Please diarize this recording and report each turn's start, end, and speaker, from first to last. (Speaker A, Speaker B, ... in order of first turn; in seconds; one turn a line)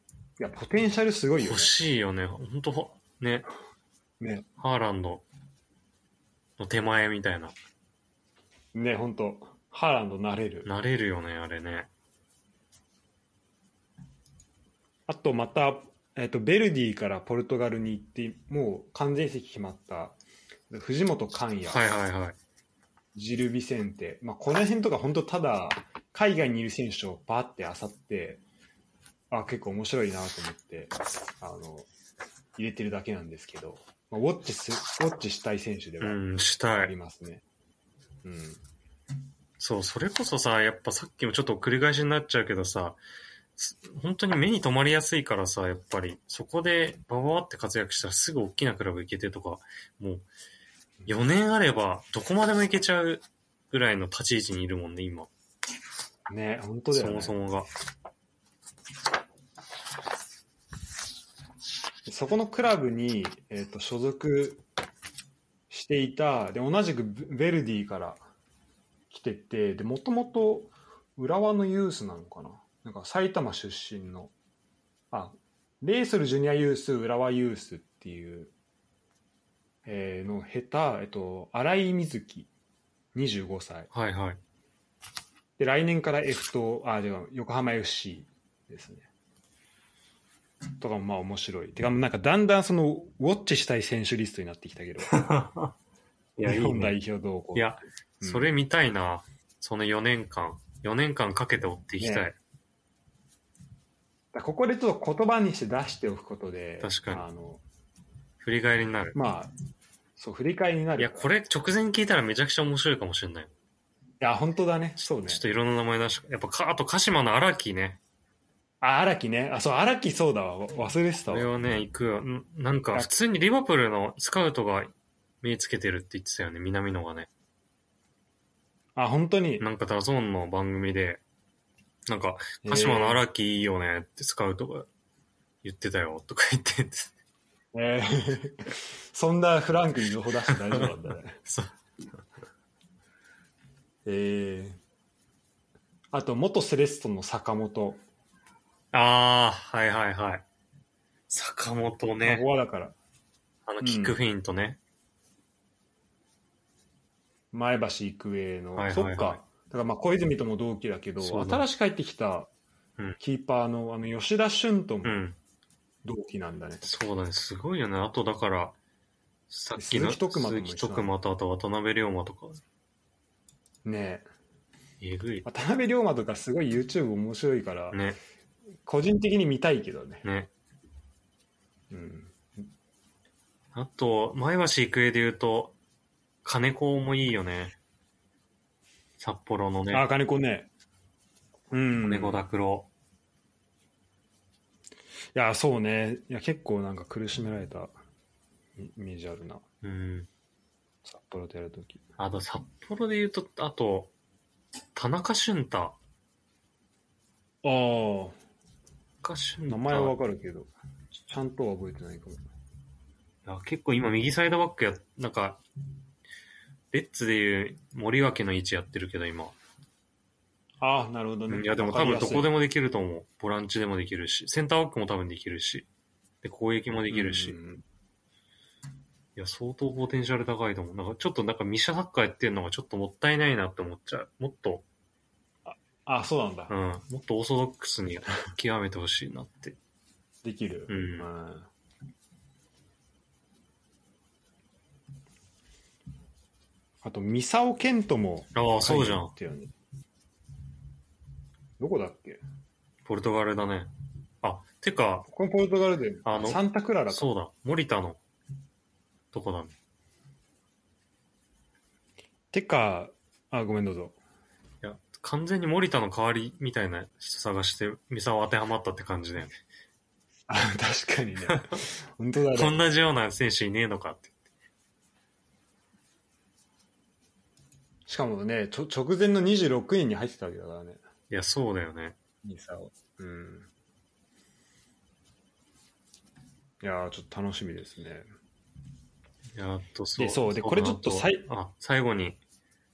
Speaker A: 0.4-1.7
Speaker B: 1.4-3.5
Speaker A: 4.2-4.5
Speaker B: 4.6-5.2
Speaker B: 6.6-7.5
Speaker A: 8.7-10.7
Speaker B: 10.7-11.9
Speaker A: 15.1-20.2
Speaker A: 20.7-21.8
Speaker B: 21.7-22.4
Speaker A: 23.1-28.4
Speaker A: 29.3-31.9
Speaker A: 32.6-36.2
Speaker B: 36.0-36.9
Speaker A: 36.7-37.4
Speaker A: 38.2-38.6
Speaker B: 39.6-43.0
Speaker B: 43.6-50.3
Speaker B: 51.1-55.3
Speaker A: 56.3-57.4
Speaker B: 56.9-57.7
Speaker A: 62.1-64.6
Speaker A: 65.7-68.2
Speaker A: 69.1-74.3
Speaker A: 75.1-78.5
Speaker A: 79.8-82.5
Speaker A: 83.2-83.9
Speaker B: 83.9-84.4
Speaker A: 85.6-89.1
Speaker A: 90.8-95.2
Speaker B: 95.1-95.7
Speaker B: 96.4-97.0
Speaker A: 96.4-98.5
Speaker B: 97.5-102.4
Speaker A: 102.0-102.3
Speaker A: 104.3-107.6
Speaker B: 106.8-107.2
Speaker B: 108.4-109.2
Speaker A: 109.1-109.5
Speaker A: 110.2-111.3
Speaker B: 111.0-113.5
Speaker A: 114.2-115.4
Speaker B: 115.2-118.0
Speaker A: 118.8-121.5
Speaker B: 121.3-127.3
Speaker A: 129.0-129.6
Speaker B: 129.6-131.2
Speaker B: 132.1-134.9
Speaker A: 132.6-133.2
Speaker B: 135.6-137.1
Speaker A: 137.7-141.4
Speaker B: 140.5-140.9
Speaker B: 141.5-141.7
Speaker A: 144.1-144.8
Speaker A: 146.1-148.0
Speaker B: 148.9-150.4
Speaker B: 151.3-152.5
Speaker A: 152.2-153.0
Speaker B: 153.7-154.8
Speaker A: 153.8-154.2
Speaker A: 157.5-162.5
Speaker B: 158.8-159.4
Speaker B: 161.2-161.7
Speaker A: 163.2-165.2
Speaker B: 165.1-165.4
Speaker A: 166.1-166.9
Speaker B: 166.8-168.8
Speaker B: 169.5-172.6
Speaker A: 169.8-171.1
Speaker A: 173.8-174.3
Speaker B: 175.0-175.4
Speaker A: 175.4-178.0
Speaker B: 177.9-178.2
Speaker A: 178.9-180.2
Speaker B: 180.2-180.5
Speaker A: 181.9-182.4
Speaker B: 183.7-185.8
Speaker B: 186.4-187.8
Speaker B: 189.2-190.0
Speaker A: 189.9-190.7
Speaker A: 191.7-192.4
Speaker B: 192.0-192.9
Speaker A: 195.3-197.9
Speaker A: 198.8-199.6
Speaker B: 199.8-200.3
Speaker A: 201.1-202.0
Speaker B: 202.2-204.1
Speaker B: 204.9-206.0
Speaker A: 207.6-208.4
Speaker B: 209.2-210.1
Speaker A: 209.7-210.7
Speaker A: 211.3-212.4
Speaker B: 213.4-215.6
Speaker B: 216.9-219.6
Speaker A: 220.8-222.5
Speaker B: 221.5-225.9
Speaker B: 226.4-227.6
Speaker A: 227.1-227.8
Speaker B: 229.4-234.8
Speaker A: 235.7-236.7
Speaker B: 236.7-239.8
Speaker A: 240.4-241.7
Speaker B: 240.9-241.3
Speaker A: 247.0-249.7
Speaker B: 248.6-249.3
Speaker A: 251.8-252.4
Speaker B: 253.1-253.9
Speaker B: 254.4-255.3
Speaker A: 255.3-257.3
Speaker B: 256.2-258.2
Speaker B: 259.3-259.7
Speaker A: 262.5-264.2
Speaker B: 264.8-269.6
Speaker A: 270.5-272.8
Speaker B: 272.6-274.4
Speaker A: 278.1-281.0
Speaker B: 281.3-282.1
Speaker A: 282.4-283.7
Speaker A: 286.8-288.2
Speaker B: 289.5-292.4
Speaker A: 290.2-291.5